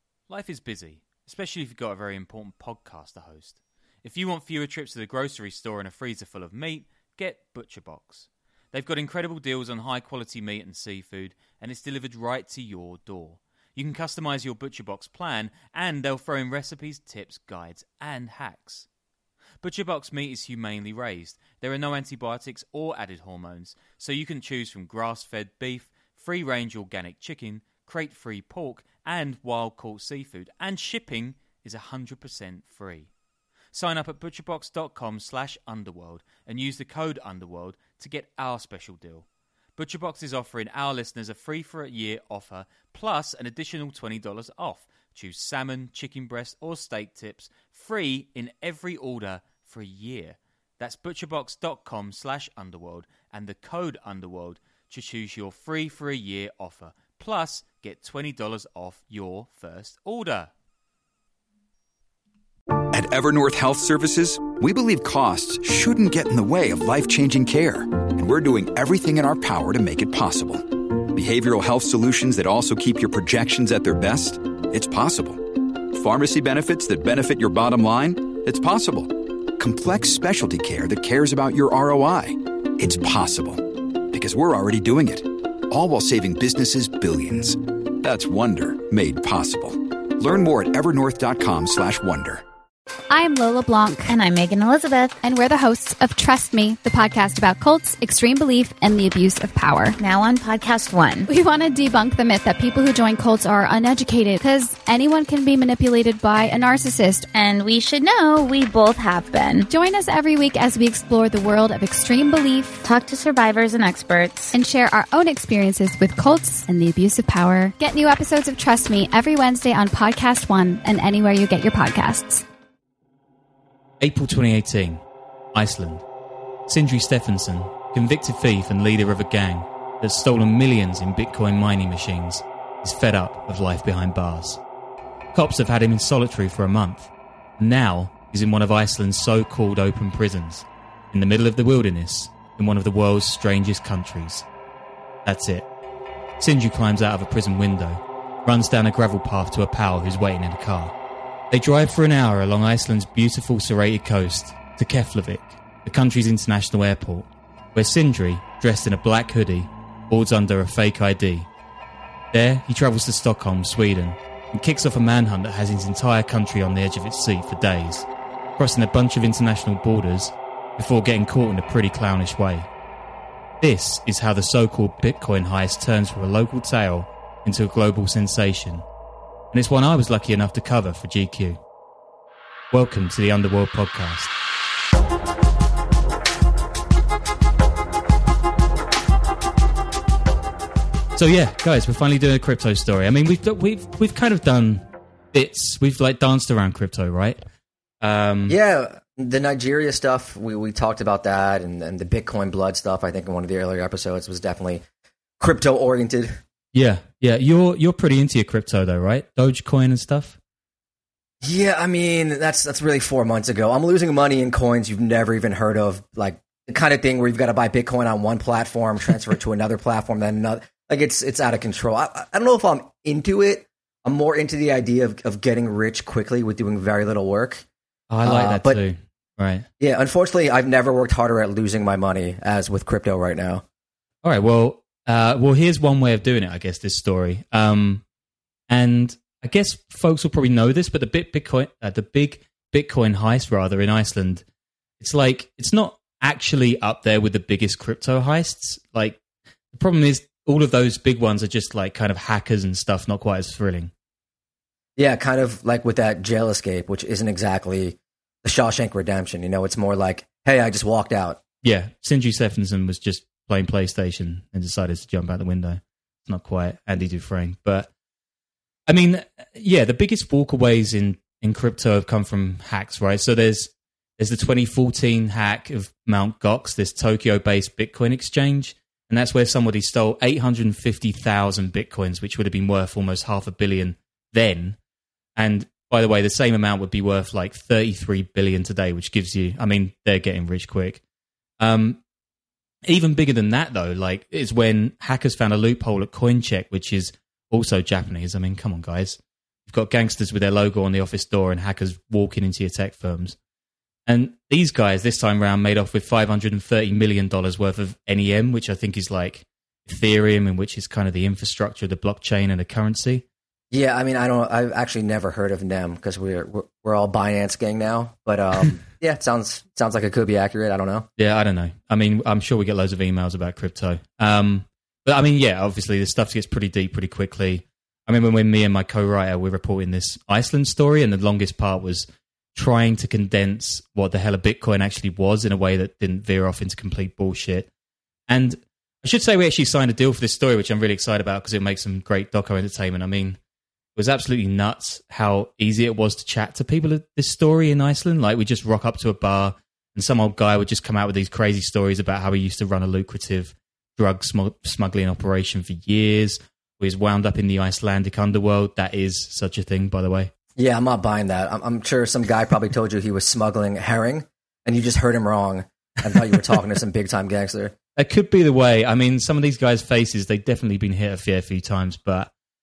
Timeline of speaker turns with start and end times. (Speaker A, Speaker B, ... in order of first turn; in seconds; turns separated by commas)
Speaker A: 0.3-18.9, Speaker A: 19.6-33.1, Speaker A: 33.7-39.3, Speaker A: 39.8-60.5, Speaker B: 62.9-92.4, Speaker C: 93.1-94.2, Speaker D: 94.1-95.1, Speaker C: 95.2-100.0, Speaker D: 100.0-101.3, Speaker C: 101.3-107.3, Speaker D: 107.3-109.7, Speaker C: 109.7-112.8, Speaker D: 112.8-114.5, Speaker C: 114.5-122.4, Speaker A: 124.0-125.0, Speaker A: 125.5-126.0, Speaker A: 126.7-134.6, Speaker A: 135.3-144.5, Speaker A: 145.2-145.7, Speaker A: 146.4-150.9, Speaker A: 151.5-161.5, Speaker A: 162.3-168.1, Speaker A: 168.6-172.7, Speaker A: 173.6-178.9, Speaker A: 179.5-181.6, Speaker A: 182.7-184.3, Speaker A: 191.2-197.4, Speaker A: 198.0-198.6, Speaker E: 198.5-204.8, Speaker E: 205.4-206.4, Speaker A: 206.7-210.4, Speaker E: 211.4-227.7, Speaker A: 228.1-229.7, Speaker E: 228.2-228.8, Speaker E: 229.8-233.6, Speaker A: 234.2-238.0, Speaker A: 238.7-244.4, Speaker A: 245.0-249.2, Speaker A: 249.7-253.9, Speaker E: 255.0-261.4, Speaker A: 261.6-267.9, Speaker A: 268.9-284.8, Speaker A: 285.4-291.0, Speaker A: 291.6-292.0, Speaker A: 292.9-303.4, Speaker A: 304.1-313.2, Speaker E: 313.7-321.1, Speaker A: 321.2-337.7, Speaker A: 338.3-343.4, Speaker A: 344.0-360.3, Speaker E: 360.6-367.8, Speaker A: 368.0-372.3